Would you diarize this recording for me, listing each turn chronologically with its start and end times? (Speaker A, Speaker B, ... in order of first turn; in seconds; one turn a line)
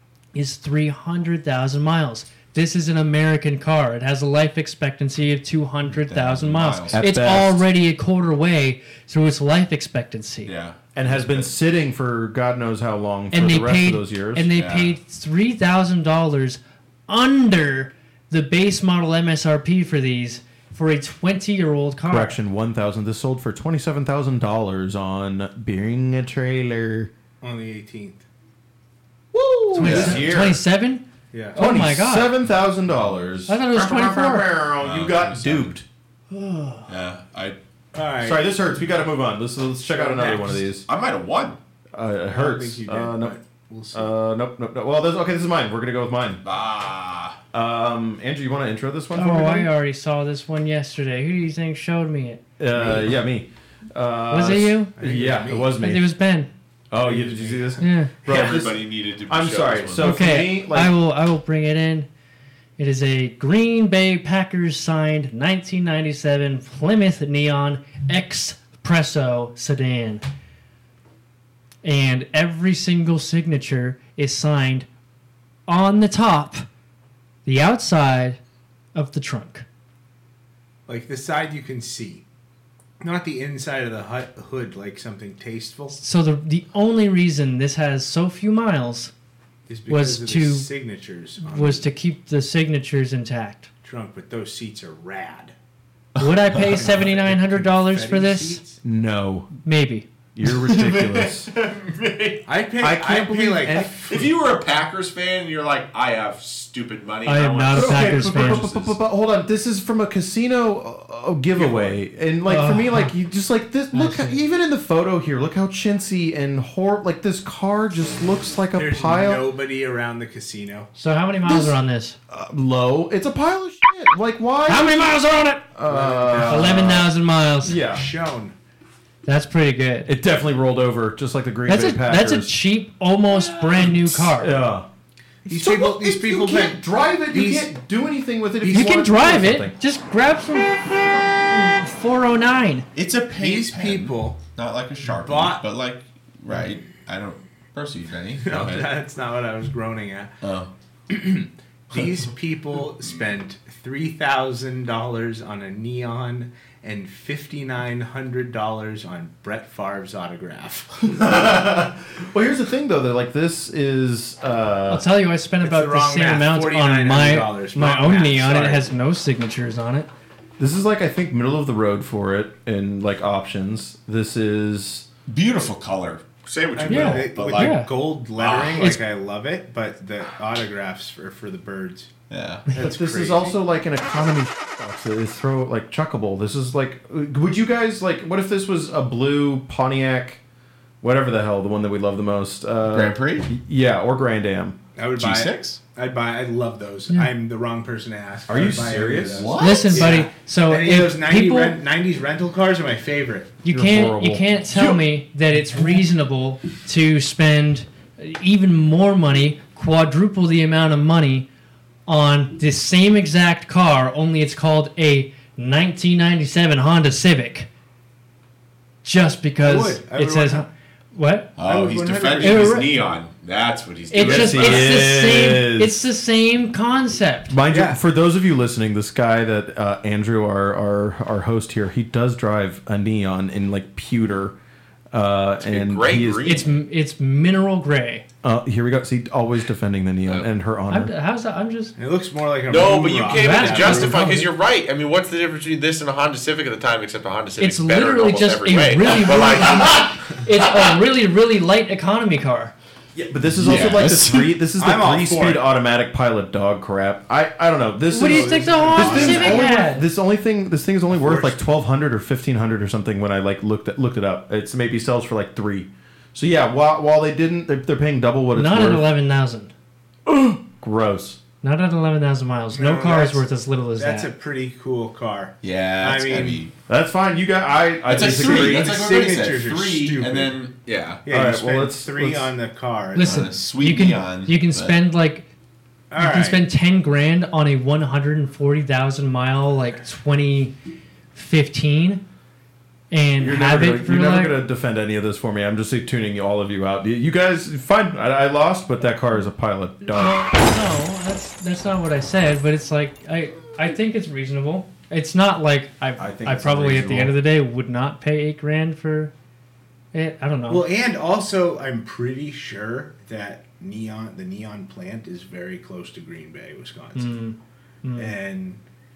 Speaker A: 0.3-10.5
Speaker B: 5.9-7.0
Speaker C: 6.9-7.6
Speaker B: 10.4-11.5
Speaker C: 10.9-14.5
Speaker A: 13.3-22.4
Speaker B: 14.5-15.0
Speaker C: 22.1-27.1
Speaker D: 27.4-28.2
Speaker D: 29.3-30.2
Speaker A: 29.7-32.3
Speaker C: 29.8-30.6
Speaker B: 29.8-30.2
Speaker D: 31.3-31.6
Speaker C: 31.6-35.8
Speaker A: 33.5-34.5
Speaker B: 34.8-35.7
Speaker A: 36.3-36.9
Speaker B: 36.9-37.6
Speaker D: 37.9-38.5
Speaker C: 38.2-40.9
Speaker D: 39.9-40.6
Speaker B: 40.9-41.6
Speaker C: 41.9-43.4
Speaker D: 42.3-44.1
Speaker C: 43.9-46.4
Speaker B: 46.4-47.4
Speaker C: 47.5-49.7
Speaker A: 49.1-52.4
Speaker C: 52.6-56.1
Speaker D: 52.7-53.1
Speaker A: 54.3-54.9
Speaker D: 55.0-55.8
Speaker A: 55.7-56.5
Speaker C: 56.9-61.0
Speaker D: 57.0-57.8
Speaker A: 57.8-58.1
Speaker B: 58.2-60.2
Speaker A: 60.0-62.1
Speaker A: 62.8-70.2
Speaker A: 71.8-74.9
Speaker A: 75.7-76.7
Speaker A: 77.4-78.4
Speaker A: 78.9-79.7
Speaker D: 80.9-82.2
Speaker D: 83.0-86.0
Speaker A: 86.0-89.1
Speaker D: 89.7-91.9
Speaker A: 89.9-90.7
Speaker A: 91.5-93.7
Speaker D: 93.8-95.5
Speaker A: 96.2-98.6
Speaker B: 96.2-97.0
Speaker D: 96.8-98.8
Speaker C: 98.8-99.5
Speaker A: 99.6-100.1
Speaker C: 100.3-101.5
Speaker B: 100.4-102.5
Speaker D: 102.5-104.3
Speaker C: 102.8-104.0
Speaker B: 103.8-109.0
Speaker A: 107.2-108.7
Speaker C: 107.7-119.4
Speaker D: 111.6-111.9
Speaker A: 112.5-113.1
Speaker A: 113.9-114.4
Speaker D: 118.7-120.9
Speaker A: 121.0-122.2
Speaker C: 121.4-121.8
Speaker C: 122.3-125.1
Speaker A: 124.7-125.7
Speaker C: 125.7-127.1
Speaker D: 125.8-127.0
Speaker A: 126.5-127.8
Speaker C: 127.6-128.1
Speaker D: 127.8-128.6
Speaker A: 129.2-130.1
Speaker C: 130.1-132.5
Speaker A: 131.7-134.6
Speaker C: 133.8-134.9
Speaker D: 135.4-137.7
Speaker C: 135.4-139.8
Speaker D: 138.6-139.0
Speaker A: 138.7-142.9
Speaker B: 142.9-148.9
Speaker D: 143.3-144.4
Speaker D: 145.0-145.6
Speaker D: 148.4-150.3
Speaker B: 150.4-150.7
Speaker D: 151.1-161.1
Speaker C: 161.0-165.1
Speaker A: 164.9-170.1
Speaker D: 165.6-168.9
Speaker C: 170.6-175.1
Speaker B: 175.3-177.8
Speaker D: 176.7-182.1
Speaker A: 176.9-177.9
Speaker B: 178.3-178.9
Speaker B: 182.3-182.6
Speaker D: 182.7-183.6
Speaker C: 182.8-190.4
Speaker C: 191.0-194.8
Speaker B: 192.9-193.5
Speaker D: 194.9-203.6
Speaker B: 195.2-195.8
Speaker C: 198.5-199.6
Speaker B: 199.3-200.2
Speaker A: 199.6-201.8
Speaker A: 203.6-211.5
Speaker C: 203.7-205.0
Speaker A: 212.1-217.7
Speaker A: 219.0-221.5
Speaker D: 219.6-220.7
Speaker B: 221.6-225.0
Speaker D: 221.6-222.8
Speaker A: 222.4-222.9
Speaker A: 224.1-227.5
Speaker C: 224.2-226.0
Speaker C: 227.5-234.6
Speaker D: 227.7-228.0
Speaker C: 235.1-236.6
Speaker B: 235.6-236.7
Speaker A: 236.4-238.2
Speaker C: 238.4-241.1
Speaker A: 240.9-241.9
Speaker D: 242.0-244.2
Speaker B: 242.7-250.8
Speaker A: 243.3-244.5
Speaker A: 247.6-252.7
Speaker C: 253.1-269.0
Speaker B: 253.6-254.6
Speaker D: 254.8-255.6
Speaker A: 258.1-260.1
Speaker D: 258.2-259.7
Speaker B: 259.0-259.6
Speaker D: 261.1-261.6
Speaker A: 268.5-269.7
Speaker C: 270.2-271.4
Speaker A: 271.6-274.3
Speaker D: 272.7-276.6
Speaker B: 275.6-276.7
Speaker C: 276.9-279.0
Speaker B: 278.1-281.2
Speaker D: 278.1-280.5
Speaker D: 281.2-283.5
Speaker C: 281.3-282.5
Speaker A: 283.1-285.4
Speaker B: 283.2-285.0
Speaker D: 286.1-286.6
Speaker A: 286.2-290.7
Speaker A: 291.3-292.2
Speaker A: 293.1-294.6
Speaker C: 293.4-300.4
Speaker A: 300.1-309.3
Speaker C: 306.2-307.3
Speaker A: 310.1-310.8
Speaker D: 310.7-317.4
Speaker A: 317.1-318.4
Speaker D: 318.2-318.8